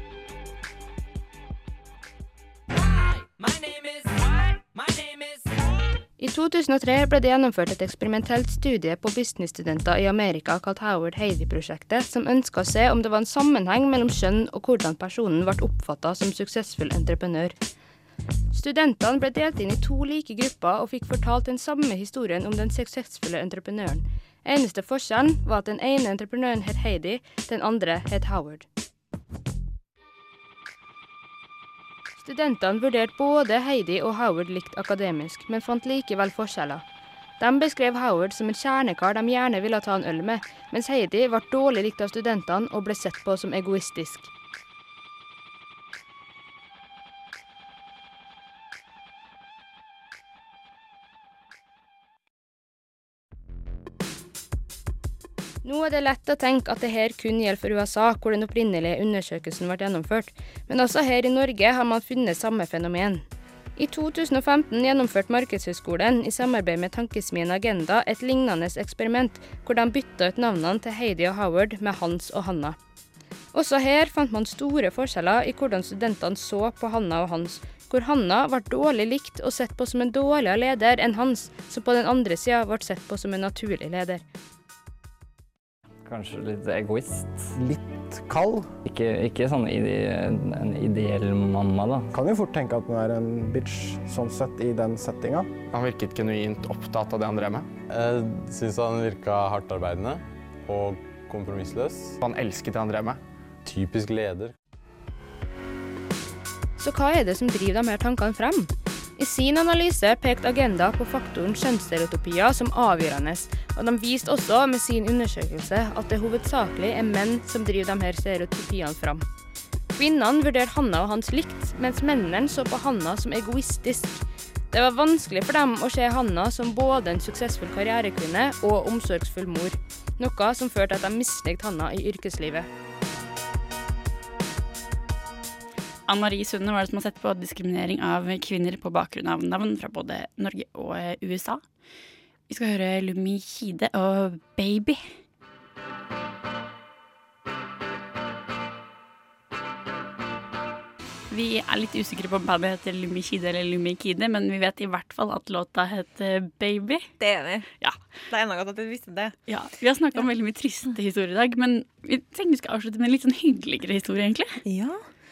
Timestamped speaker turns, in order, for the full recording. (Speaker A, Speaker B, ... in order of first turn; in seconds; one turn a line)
Speaker A: 6.2-17.6
Speaker A: 18.5-28.6
Speaker A: 32.2-36.8
Speaker A: 37.4-44.3
Speaker A: 55.6-63.2
Speaker A: 63.8-72.8
Speaker A: 73.5-84.2
Speaker B: 86.0-87.5
Speaker C: 87.5-88.7
Speaker B: 88.8-92.1
Speaker C: 92.1-95.6
Speaker D: 95.7-97.7
Speaker E: 97.9-102.2
Speaker D: 102.2-103.2
Speaker E: 103.7-104.5
Speaker A: 106.8-119.2
Speaker A: 119.9-132.7
Speaker F: 136.1-141.6
Speaker F: 142.5-145.0
Speaker F: 151.3-157.1
Speaker G: 157.2-157.7
Speaker G: 158.3-159.4
Speaker F: 159.5-164.6
Speaker G: 164.7-165.0